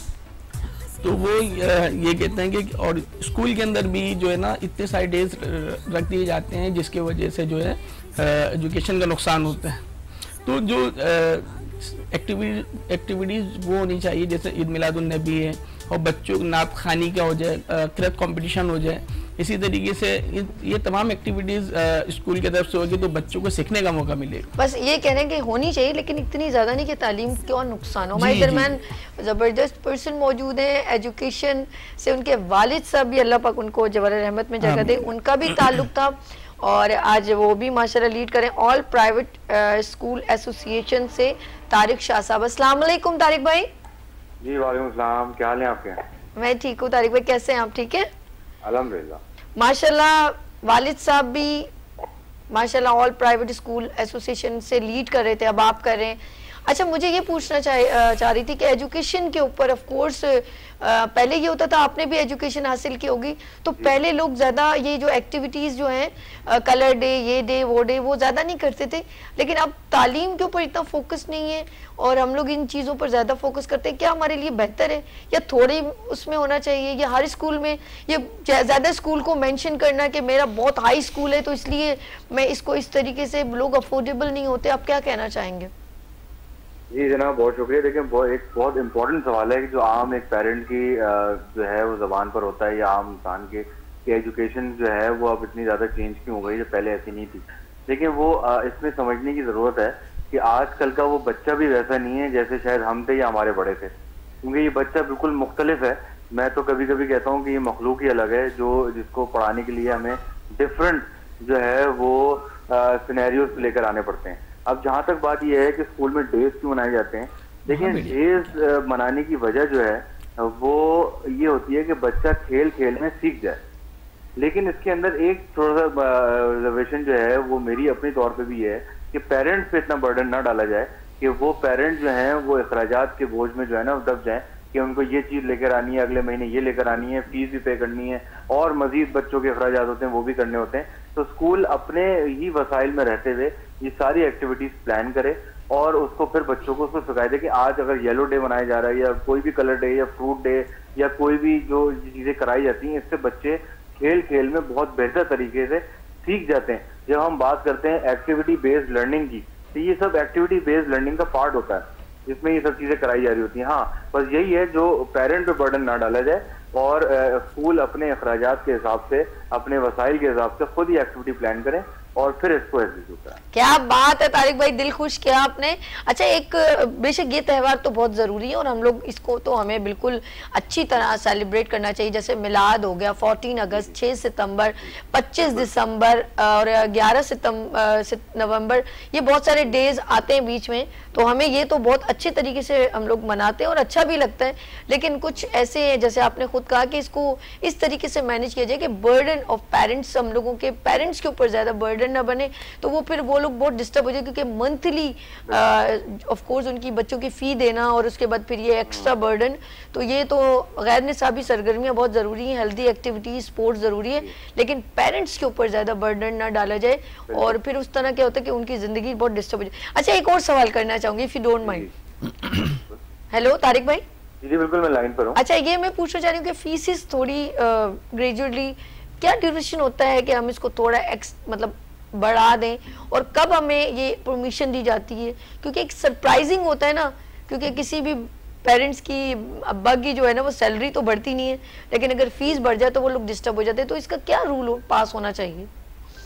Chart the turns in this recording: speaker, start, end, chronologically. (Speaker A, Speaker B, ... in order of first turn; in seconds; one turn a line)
Speaker A: 1.0-9.8
Speaker A: 10.4-24.5
Speaker B: 24.6-43.7
Speaker A: 28.1-28.7
Speaker A: 34.6-35.0
Speaker C: 44.4-46.0
Speaker B: 46.4-48.1
Speaker C: 48.6-49.2
Speaker B: 49.6-51.7
Speaker B: 52.5-85.7
Speaker C: 86.9-103.9
Speaker C: 104.4-123.6
Speaker A: 117.7-118.5
Speaker C: 124.4-173.4
Speaker B: 173.5-221.9
Speaker C: 217.3-217.5
Speaker C: 221.6-221.9
Speaker B: 223.3-224.0
Speaker C: 224.4-225.4
Speaker B: 225.3-245.7